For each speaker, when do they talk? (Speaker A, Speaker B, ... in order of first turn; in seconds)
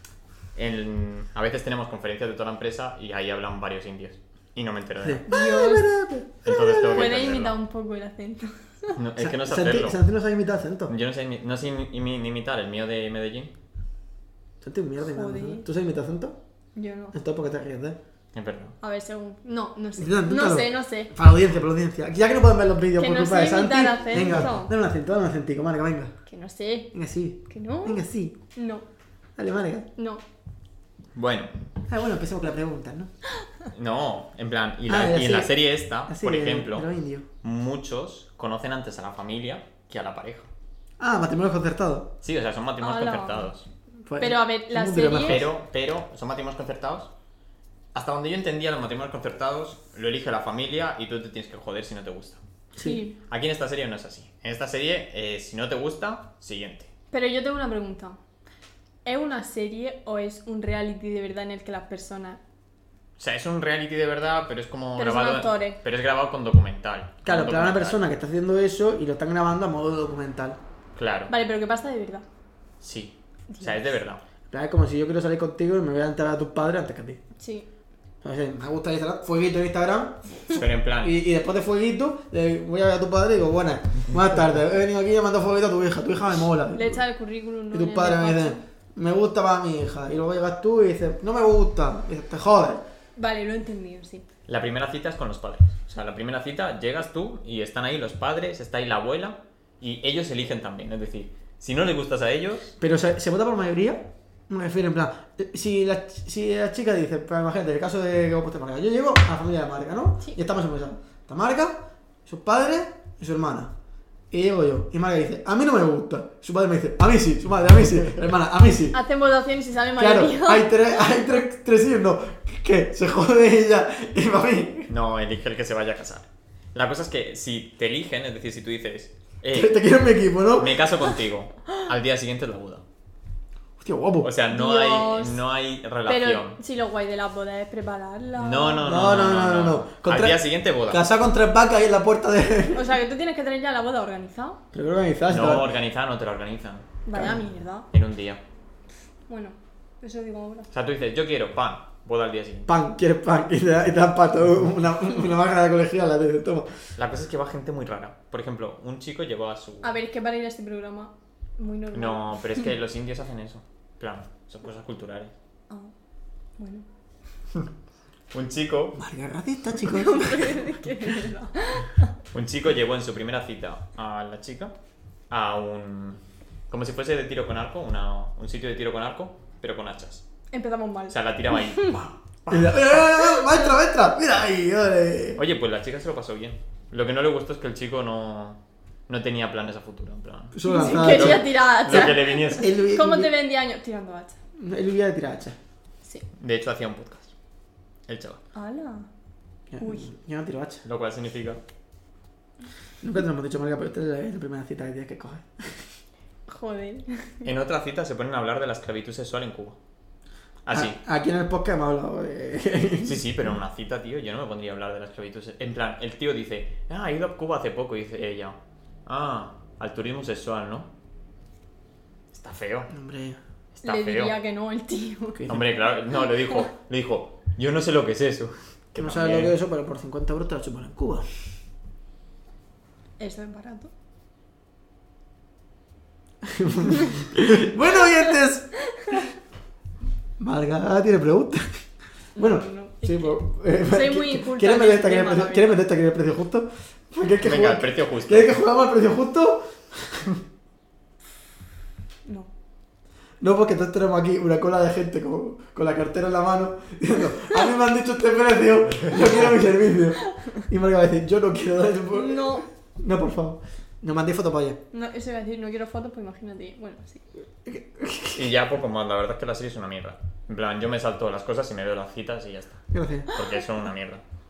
Speaker A: 0.6-5.2, 6.5-7.6, 9.0-10.0, 10.9-13.5, 18.3-18.8, 31.1-31.6, 33.7-36.9, 37.4-40.5, 42.2-43.7, 45.1-47.1, 47.9-52.4, 53.3-56.9, 63.2-68.0, 71.0-71.3, 72.8-74.2, 80.5-81.2, 94.5-102.7, 124.9-129.8, 130.6-132.8, 134.2-136.6, 138.4-141.0, 145.3-146.9, 147.9-148.4, 150.7-152.7, 157.0-159.9, 161.9-165.3, 168.3-169.0, 172.3-174.7, 175.3-176.2, 176.7-180.2, 181.1-183.0, 185.4-192.7, 196.4-197.3, 198.1-198.4, 200.8-201.6, 207.4-209.8, 210.7-211.0, 213.0-220.9, 222.3-222.9, 223.8-224.3, 225.5-229.5, 247.4-248.6, 268.3-274.2
Speaker B: 5.0-7.3, 9.2-10.9, 14.6-16.4, 17.1-18.0, 20.0-26.1, 26.9-28.4, 29.4-29.9, 31.9-33.1, 34.9-35.5, 36.1-37.3, 41.0-42.1, 44.1-45.5, 52.8-53.0, 67.2-70.6, 74.5-77.2, 78.2-87.0, 87.7-92.8, 102.8-113.7, 114.3-119.0, 120.0-124.9, 129.5-130.8, 133.8-134.3, 138.8-142.9, 144.7-145.7, 147.1-147.4, 152.7-156.7, 168.9-170.7, 182.5-185.4, 190.5-193.3, 194.6-195.6, 199.7-200.8, 203.0-205.8, 210.7-213.3, 222.9-223.4, 229.0-231.3, 236.4-238.7, 240.4-241.7, 242.4-250.4, 253.4-264.8, 267.7-268.5, 272.9-273.3
Speaker C: 5.3-5.9, 6.9-9.0, 15.0-15.7, 16.8-17.1, 18.8-21.1, 23.0-24.7, 26.3-26.9, 27.5-28.0, 28.6-28.9, 30.0-30.2, 42.8-43.5, 44.2-45.5, 52.8-53.2, 57.1-58.2, 59.0-62.4, 65.0-65.8, 71.3-72.2, 73.5-73.8, 77.4-77.7, 86.7-88.6, 93.2-94.2, 118.9-120.7, 134.5-135.4, 136.1-138.9, 142.7-144.6, 147.1-147.9, 149.3-150.7, 159.8-162.3, 166.6-166.9, 169.8-172.1, 180.5-181.9, 183.4-183.7, 190.6-194.4, 198.6-199.1, 199.8-200.1, 206.5-207.4, 223.8-225.6, 233.2-233.9, 242.4-245.8, 262.1-262.7, 264.9-267.2